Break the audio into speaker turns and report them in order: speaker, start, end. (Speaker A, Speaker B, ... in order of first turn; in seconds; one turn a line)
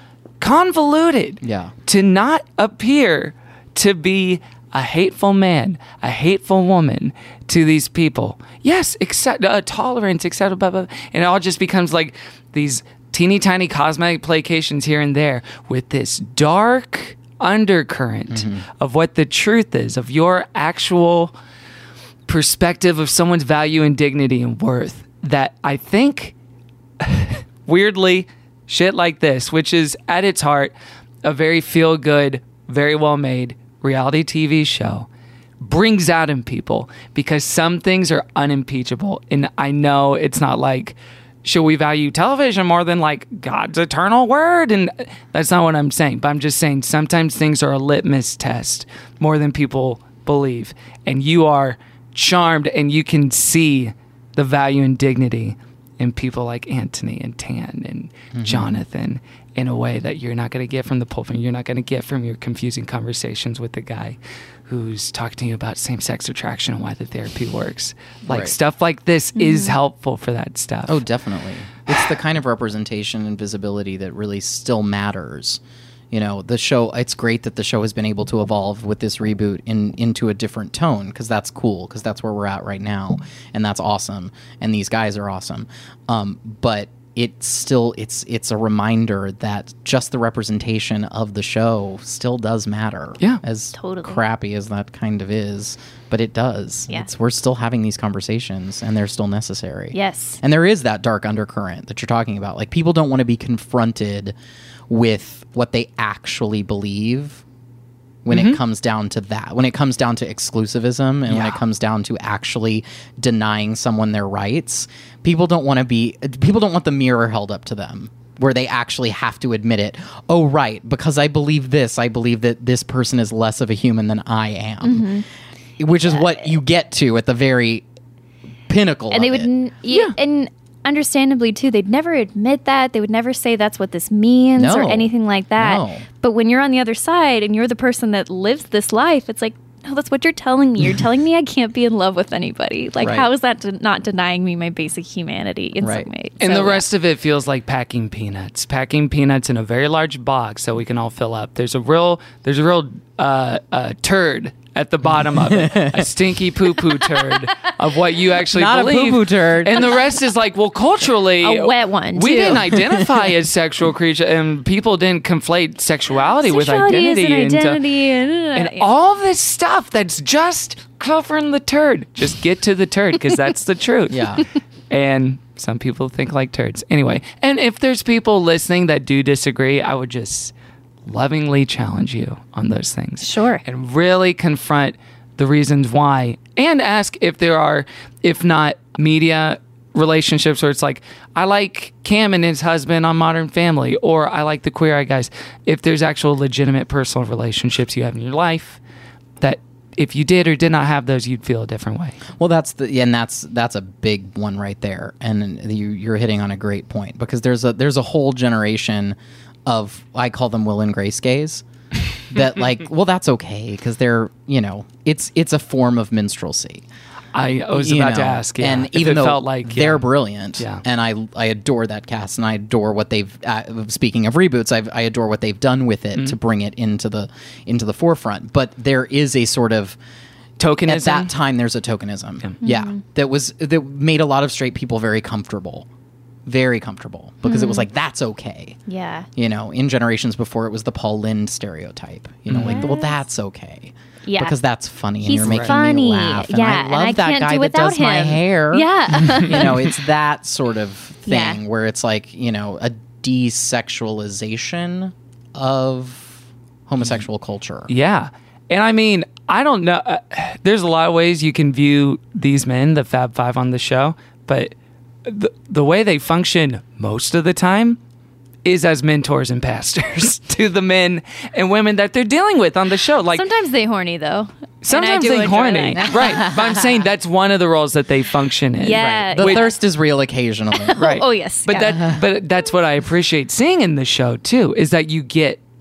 Speaker A: 0.4-21.3
Speaker B: 1.4-1.7
Speaker B: 18.3-18.6
Speaker A: 22.3-26.3
Speaker A: 27.0-35.1
Speaker A: 35.6-71.0
Speaker B: 58.4-58.8
Speaker B: 68.3-68.5
Speaker C: 69.4-69.7
Speaker B: 70.9-104.4
Speaker C: 93.7-94.2
Speaker C: 99.9-100.4
Speaker B: 104.9-107.4
Speaker B: 108.2-125.1
Speaker A: 108.3-108.6
Speaker A: 111.3-111.6
Speaker C: 124.8-125.2
Speaker B: 125.8-127.8
Speaker C: 126.0-126.5
Speaker B: 128.7-129.5
Speaker C: 129.1-146.9
Speaker A: 129.9-130.2
Speaker B: 134.6-136.1
Speaker B: 143.0-143.3
Speaker B: 145.8-146.1
Speaker A: 146.4-167.9
Speaker B: 155.4-156.1
Speaker B: 158.5-159.9
Speaker C: 161.4-162.8
Speaker B: 162.4-163.2
Speaker C: 166.4-168.9
Speaker A: 168.5-174.4
Speaker B: 174.1-174.5
Speaker A: 174.9-180.5
Speaker A: 181.1-198.8
Speaker C: 183.2-183.6
Speaker A: 199.4-202.2
Speaker B: 202.3-211.6
Speaker B: 212.2-216.8
Speaker A: 217.3-220.8
Speaker B: 217.7-230.0
Speaker A: 230.6-231.3
Speaker B: 230.8-235.9
Speaker C: 232.6-233.0
Speaker B: 236.5-238.8
Speaker C: 237.4-237.9
Speaker C: 238.9-239.3
Speaker B: 239.4-257.9
Speaker A: 242.5-242.8
Speaker C: 242.7-243.2
Speaker C: 244.3-244.6
Speaker C: 245.2-249.9
Speaker A: 245.4-245.7
Speaker C: 251.3-251.6
Speaker A: 257.9-264.7
Speaker A: 265.2-268.0
Speaker A: 268.6-273.4
Speaker C: 273.3-276.8
Speaker A: 274.8-279.7
Speaker C: 278.8-279.8
Speaker B: 279.0-281.1
Speaker C: 280.9-282.0
Speaker A: 281.0-285.6